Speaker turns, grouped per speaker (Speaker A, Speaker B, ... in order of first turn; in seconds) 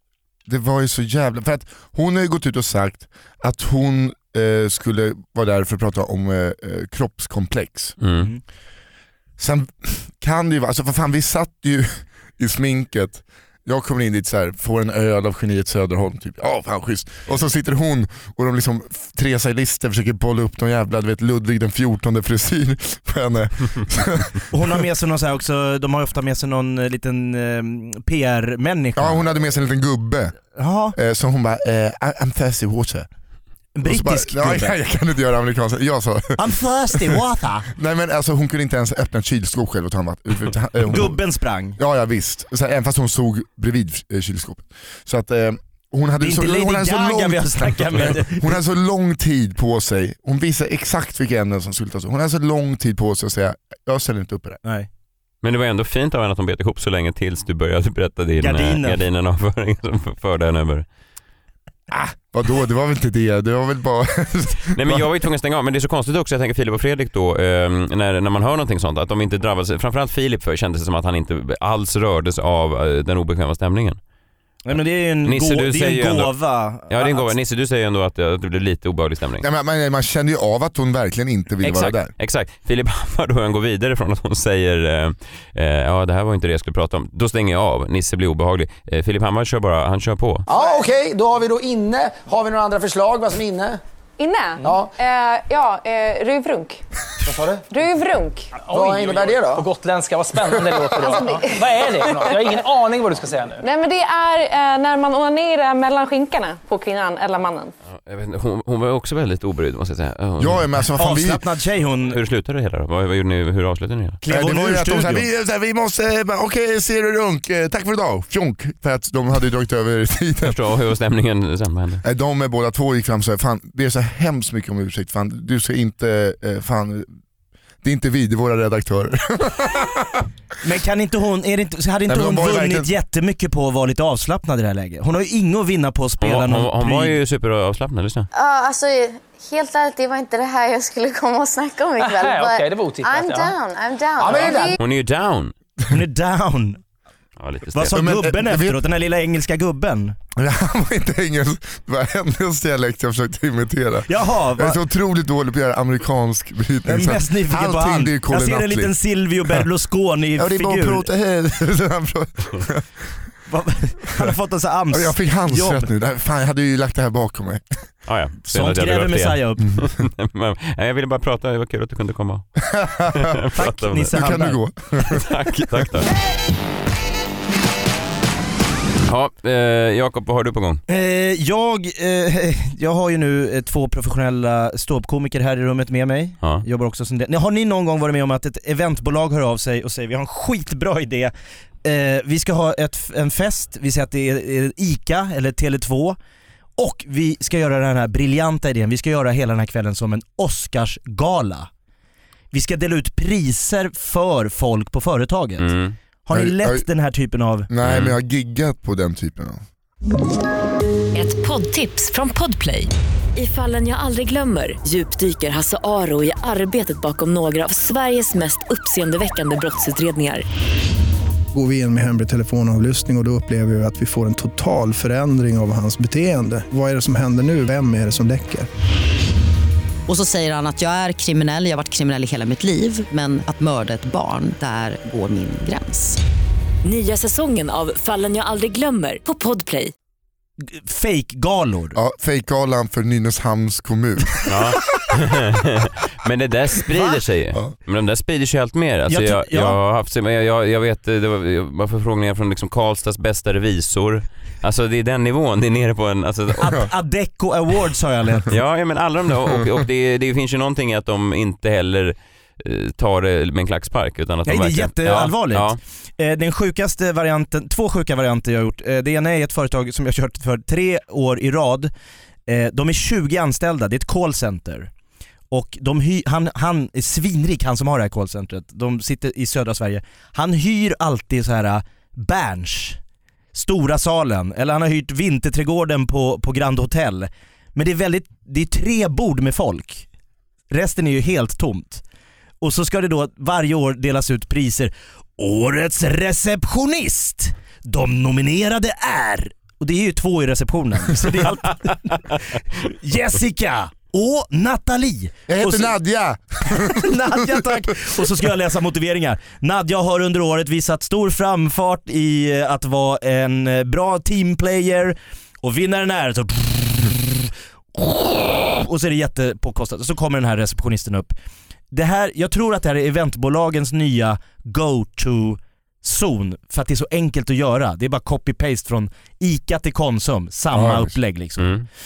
Speaker A: 0.5-8.0, 9.4-24.8, 28.9-30.4, 30.9-33.1, 33.8-41.2, 41.8-54.6, 61.9-65.0, 79.4-82.1, 110.4-111.4, 114.3-120.5, 122.0-127.1, 127.8-130.3, 132.1-132.9, 147.9-148.8, 150.3-158.9, 160.4-162.8, 164.9-167.6, 172.7-173.3, 174.1-175.3, 206.3-206.8, 207.7-209.6, 241.9-244.7, 305.5-308.2, 330.7-331.1
Speaker B: 8.0-8.3, 55.4-60.9, 64.7-74.0, 74.8-76.3, 76.9-79.4, 81.6-90.5, 107.9-110.7, 112.1-114.2, 120.4-122.0, 136.2-138.3, 144.8-145.5, 147.4-148.0, 168.1-172.5, 173.1-174.2, 175.1-176.1, 179.1-180.8, 205.6-205.9, 207.8-208.1, 244.5-256.8, 258.5-265.8, 331.6-331.9
Speaker C: 24.5-29.3, 30.6-31.0, 33.8-34.7, 36.4-37.7, 40.8-41.8, 46.2-48.6, 58.4-59.0, 74.6-77.3, 111.0-112.2, 114.2-115.2, 130.6-137.2, 145.9-146.8, 147.7-150.1, 154.1-154.8, 156.8-161.1, 163.5-165.9, 168.5-169.6, 173.6-174.6, 180.9-191.3, 191.8-196.2, 196.8-201.7, 202.5-205.7, 206.2-207.7, 240.6-242.0, 249.1-249.8, 256.6-258.5, 264.4-271.9, 272.5-274.9, 275.5-283.0, 283.5-290.1, 290.7-292.0, 292.6-305.9, 306.7-321.3, 321.9-331.7
Speaker D: 90.5-93.8, 94.6-94.9, 97.2-97.7, 98.7-99.7
Speaker E: 94.2-96.8, 97.7-98.5, 101.0-102.5, 103.6-107.7
Speaker F: 98.6-103.6, 142.0-143.5, 144.2-144.8
Speaker G: 138.3-144.8
Speaker H: 211.1-220.4, 236.8-239.9
Speaker I: 221.5-228.7
Speaker J: 230.1-236.2